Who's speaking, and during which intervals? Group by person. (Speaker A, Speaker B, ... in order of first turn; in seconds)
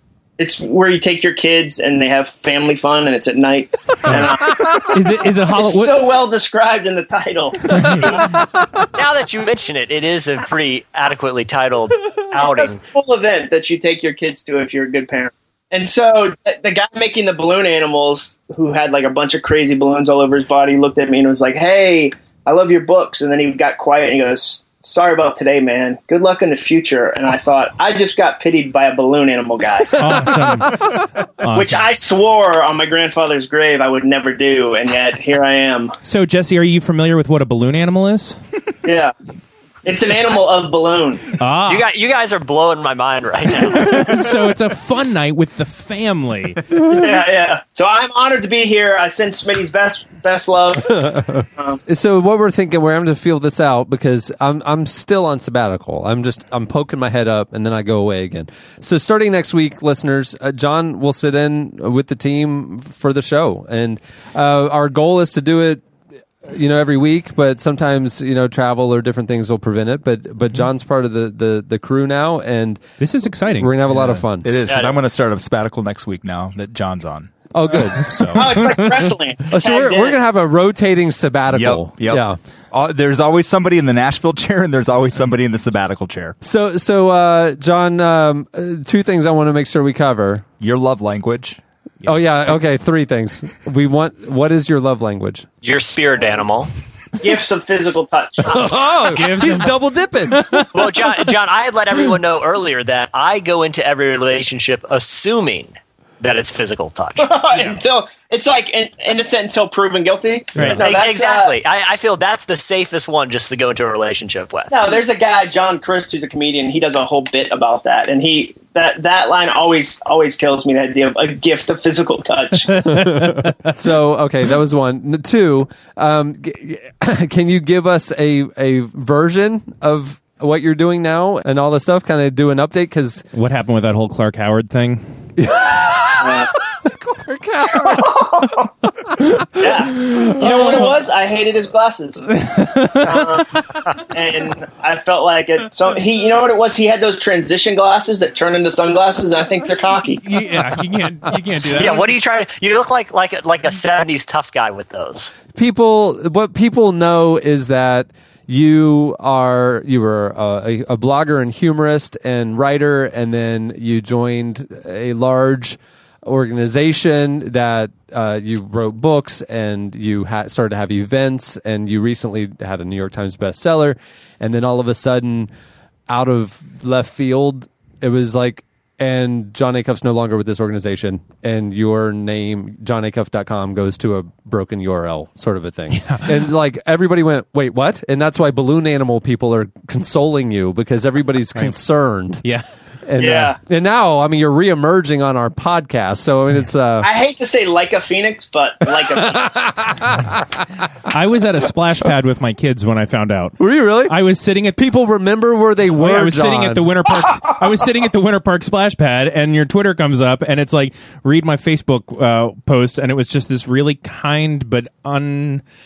Speaker A: 0.4-4.8, 5.5-7.8, 12.4-30.0, 31.5-35.9, 38.8-39.1, 39.8-41.2, 46.8-51.8, 78.3-80.2, 97.2-98.5, 107.2-111.5, 114.7-122.7, 136.2-136.5, 137.7-138.7, 139.6-142.2, 143.0-143.5, 144.1-150.2, 193.2-193.6, 197.0-199.7
Speaker B: 4.0-6.0, 7.7-8.1, 29.9-31.9, 36.0-38.4, 41.4-41.9, 43.6-46.6, 73.0-74.2, 78.0-78.9, 99.1-99.7, 100.3-100.9, 110.5-110.8, 122.8-123.5, 133.3-135.0, 140.0-140.9, 142.3-143.4, 150.2-152.1, 185.9-186.3, 201.1-204.8, 205.9-215.6
Speaker C: 8.9-12.8, 41.6-44.2, 74.7-75.0, 95.6-96.7, 100.7-107.6, 110.8-114.9, 151.7-155.3
Speaker D: 51.9-65.8, 66.5-72.8, 73.5-74.5, 77.5-78.3, 79.5-82.4, 86.4-90.5, 92.0-95.5, 98.5-100.7, 122.9-133.2, 135.4-136.4, 137.0-138.0, 155.5-175.5, 176.1-192.4, 193.1-197.1, 199.8-200.3, 203.6-204.2, 204.7-206.9
Speaker E: 74.4-77.5, 78.1-78.4, 81.5-86.4, 90.6-91.6